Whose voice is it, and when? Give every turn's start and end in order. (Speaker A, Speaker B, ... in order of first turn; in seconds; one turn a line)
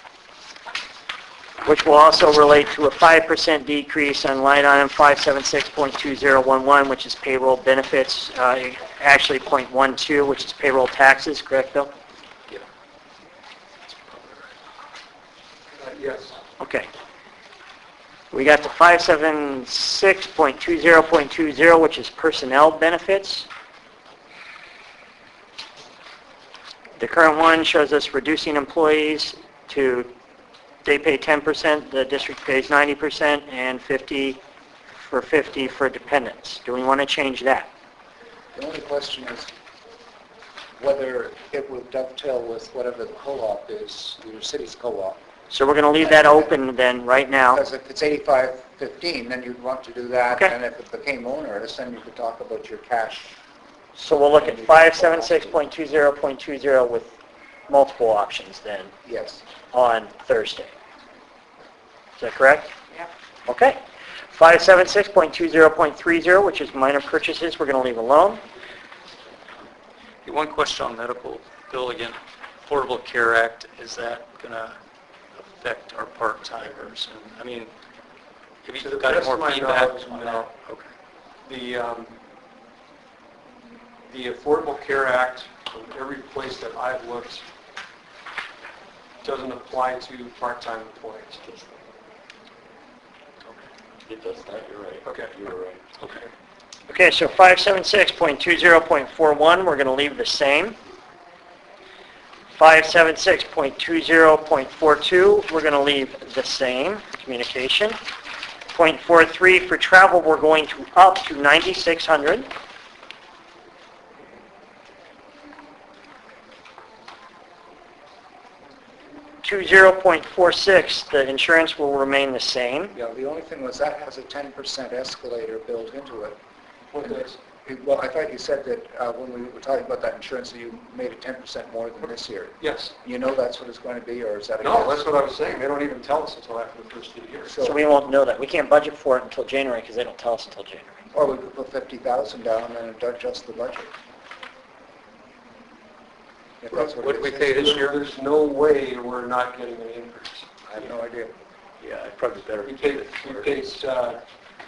Speaker A: 1.6-11.9
Speaker B: 14.1-14.4
Speaker C: 15.8-16.4
Speaker A: 16.6-16.9
Speaker A: 18.3-23.5
Speaker A: 27.0-30.1
Speaker A: 30.8-34.4
Speaker A: 35.0-37.7
Speaker D: 38.5-39.5
Speaker D: 40.8-45.2
Speaker A: 45.5-47.6
Speaker D: 46.0-46.5
Speaker D: 47.5-53.3
Speaker A: 54.0-57.2
Speaker D: 54.3-55.6
Speaker A: 57.7-58.9
Speaker D: 59.0-59.4
Speaker A: 59.7-60.7
Speaker A: 62.2-62.7
Speaker A: 63.5-63.8
Speaker A: 64.3-68.4
Speaker B: 70.2-74.8
Speaker B: 75.4-77.7
Speaker B: 78.6-80.9
Speaker C: 78.8-80.4
Speaker C: 81.5-82.2
Speaker C: 84.1-87.5
Speaker C: 89.2-91.4
Speaker E: 91.4-91.7
Speaker E: 94.1-96.0
Speaker C: 95.0-95.4
Speaker A: 96.9-100.8
Speaker A: 102.5-108.0
Speaker A: 108.7-112.5
Speaker A: 119.4-122.9
Speaker D: 122.9-126.4
Speaker C: 126.9-127.4
Speaker D: 127.0-135.0
Speaker C: 132.6-132.9
Speaker C: 134.6-137.5
Speaker D: 137.5-137.8
Speaker A: 137.6-141.0
Speaker D: 141.1-143.9
Speaker D: 146.6-147.6
Speaker B: 146.7-148.0
Speaker C: 147.6-150.5
Speaker D: 150.7-151.3
Speaker B: 151.8-153.5
Speaker C: 152.6-154.2